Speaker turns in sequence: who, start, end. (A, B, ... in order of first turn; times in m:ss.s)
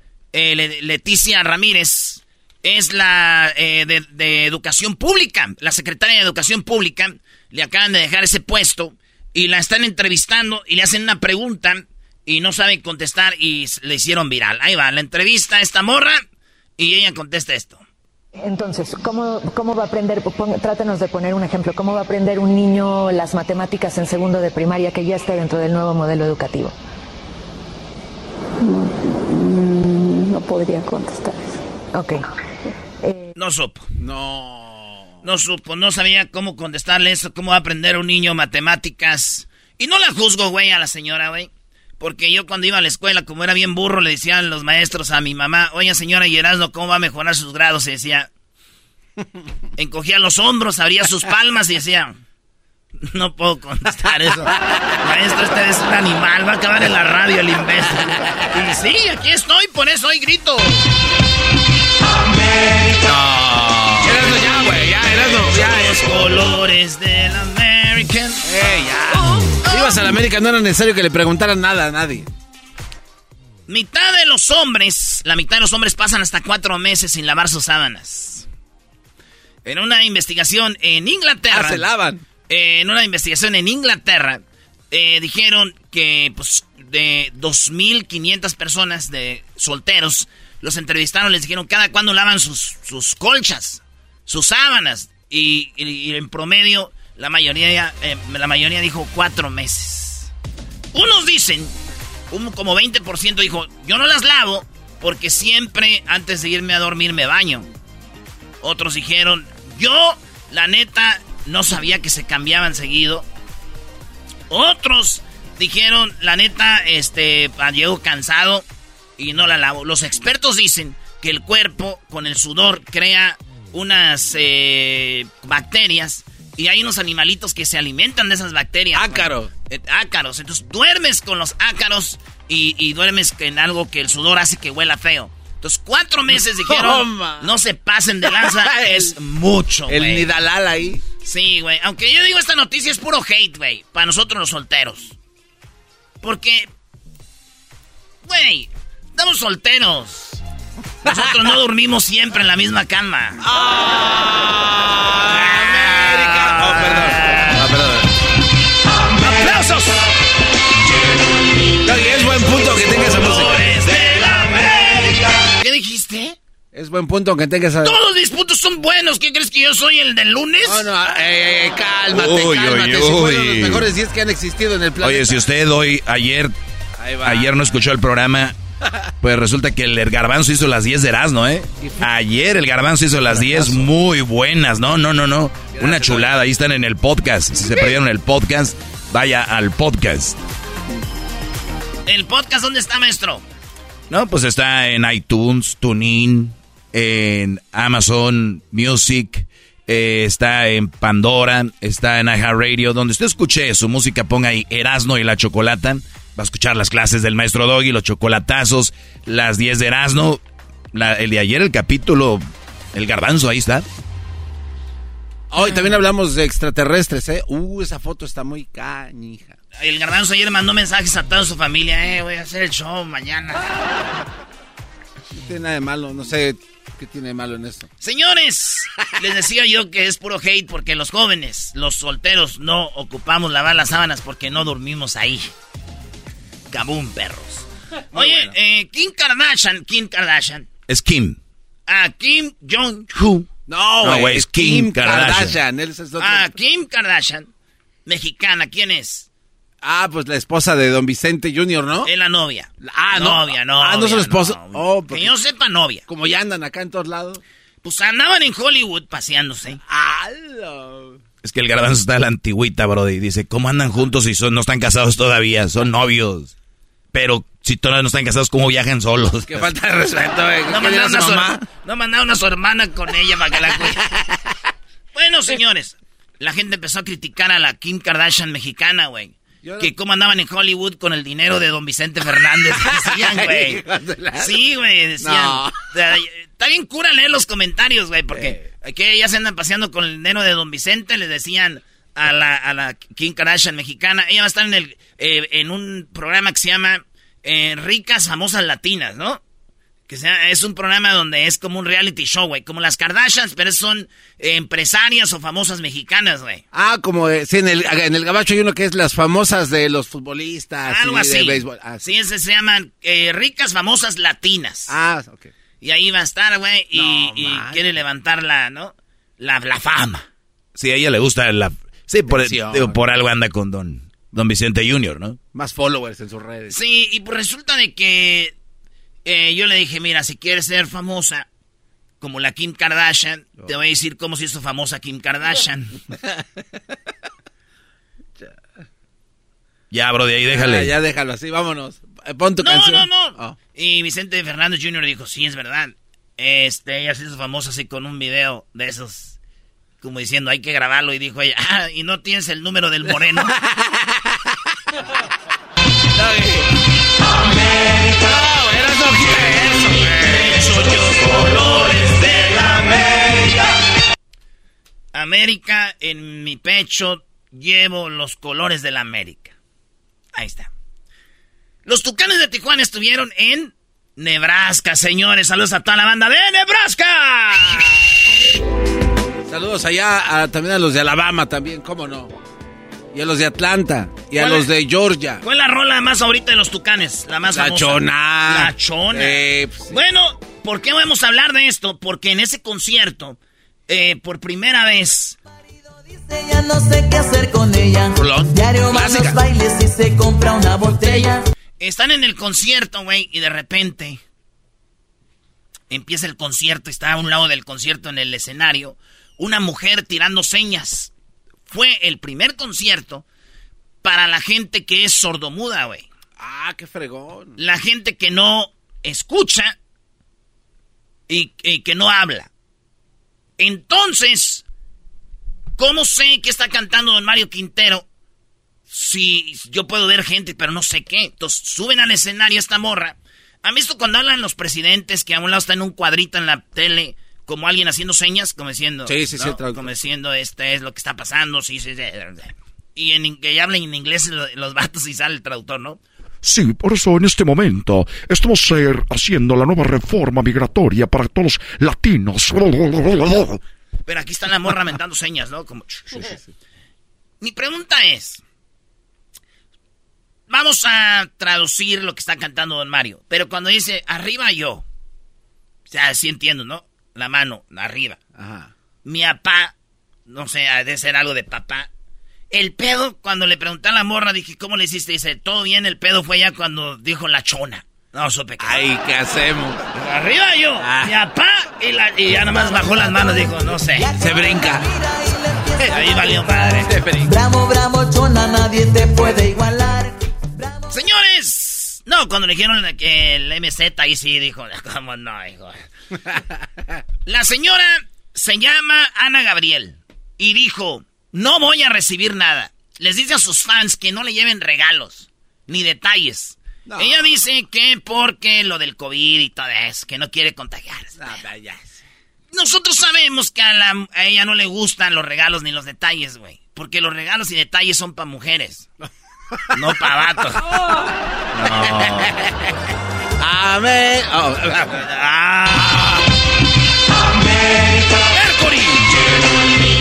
0:00.3-0:16.2 A
0:16.8-0:17.8 A
0:18.4-0:26.8 B
0:28.6-0:32.2 B
0:33.4-0:33.8 A
0:34.0-0:35.1 C
0:35.2-0:48.3 A
0:49.8-0:52.2 A
0:53.0-1:00.8 A
1:04.0-1:06.4 C
1:05.2-1:08.4 A
1:08.4-1:12.3 C
1:09.1-1:10.0 A
1:13.7-1:18.4 A
1:19.6-1:21.9 A
1:21.5-1:22.2 C
1:22.5-1:40.3 A
1:40.9-1:41.7 A
1:42.3-1:47.7 A
1:48.6-1:53.2 A
1:54.5-1:58.6 A
1:59.2-2:20.3 A
2:08.9-2:09.5 C
2:16.7-2:17.5 C
2:18.2-2:19.1 C
2:19.9-2:21.0 C
2:21.2-2:25.2 A
2:26.2-2:26.7 A
2:28.2-2:30.4 A
2:31.0-2:33.4 A
2:33.4-2:38.1 C
2:35.4-2:37.6 A
2:39.2-2:40.0 A
2:41.8-2:43.8 C
2:42.8-2:46.4 A
2:46.7-2:48.0 C
2:47.8-2:50.9 A
2:50.6-2:55.6 C
2:52.1-2:53.9 D
2:55.0-2:56.5 D
2:57.0-2:57.7 C
2:57.2-2:58.6 D
2:59.2-3:10.4 D
3:01.8-3:02.1 C
3:03.3-3:03.9 C
3:05.7-3:06.4 C
3:12.0-3:13.4 A
3:14.1-3:30.4 D
3:30.9-3:32.4 D
3:32.9-3:33.8 D
3:35.5-3:39.6 C
3:39.8-3:43.7 A
3:45.4-3:47.9 C
3:48.0-3:55.5 A
3:56.7-4:00.7 A
3:58.1-3:58.5 C
4:00.9-4:01.4 D
4:01.9-4:03.5 A
4:03.7-4:06.5 C
4:04.0-4:05.6 D
4:06.2-4:07.5 A
4:08.0-4:09.3 A
4:09.8-4:12.1 C
4:12.0-4:16.0 A
4:12.8-4:15.3 C
4:16.1-4:17.4 C
4:17.8-4:19.8 A
4:19.8-4:21.2 C
4:21.4-4:26.5 D
4:27.1-4:29.7 D
4:29.5-4:31.6 C
4:30.7-4:34.0 A
4:33.9-4:34.4 C
4:35.1-4:43.8 A
4:39.6-4:39.9 C
4:42.8-4:44.6 C
4:44.4-4:59.4 A
4:45.2-4:45.8 C
4:48.3-4:48.7 C
5:00.1-5:06.6 A
5:06.7-5:12.0 C
5:10.9-5:14.9 A
5:14.9-5:15.5 C
5:15.8-5:20.2 A
5:16.9-5:17.8 C
5:20.8-5:25.4 D
5:22.3-5:23.0 C
5:25.5-5:26.7 C
5:26.7-5:28.5 A
5:29.2-5:31.5 A
5:32.2-5:35.9 A
5:39.9-5:40.9 D
5:40.5-5:43.6 C
5:42.6-5:49.4 A
5:50.0-5:53.5 A
5:53.5-5:54.2 C
5:56.1-5:56.7 C
5:58.0-6:00.6 C
6:00.2-6:03.5 A
6:05.1-6:09.5 A
6:10.3-6:10.7 A
6:11.8-6:18.1 A
6:19.5-6:22.3 C
6:23.1-6:25.4 C
6:24.4-6:24.7 A
6:25.4-6:35.4 A
6:27.5-6:30.0 C
6:36.3-6:41.4 E
6:38.8-6:39.4 C
6:41.8-6:44.2 A
6:45.9-6:51.1 A
6:51.7-6:53.2 A
6:54.0-6:56.1 A
6:56.4-6:57.6 C
6:57.6-6:59.8 A
7:01.3-7:02.5 A
7:03.6-7:04.6 A
7:05.8-7:08.0 A
7:08.9-7:26.0 A
7:19.1-7:19.9 C
7:26.4-7:33.6 F
7:34.1-7:36.4 A
7:36.2-7:36.4 C
7:37.4-7:38.4 A
7:40.5-7:44.8 A
7:45.9-7:48.2 A
7:48.4-7:48.7 C
7:49.0-7:49.7 A
7:50.3-7:51.9 A
7:52.5-7:58.8 A
7:58.6-7:59.8 C
8:00.0-8:04.1 A
8:00.8-8:01.1 C
8:04.1-8:04.9 C
8:04.3-8:05.8 E
8:05.9-8:06.9 A
8:06.8-8:07.3 C
8:07.3-8:10.2 E
8:10.9-8:15.8 A
8:16.2-8:17.0 C
8:17.2-8:31.4 A
8:26.8-8:27.3 C
8:31.2-8:32.0 C
8:32.5-8:38.9 A
8:39.7-8:40.6 A
8:41.5-8:42.3 A
8:43.4-8:45.0 C
8:44.7-8:46.1 A
8:48.2-8:49.4 A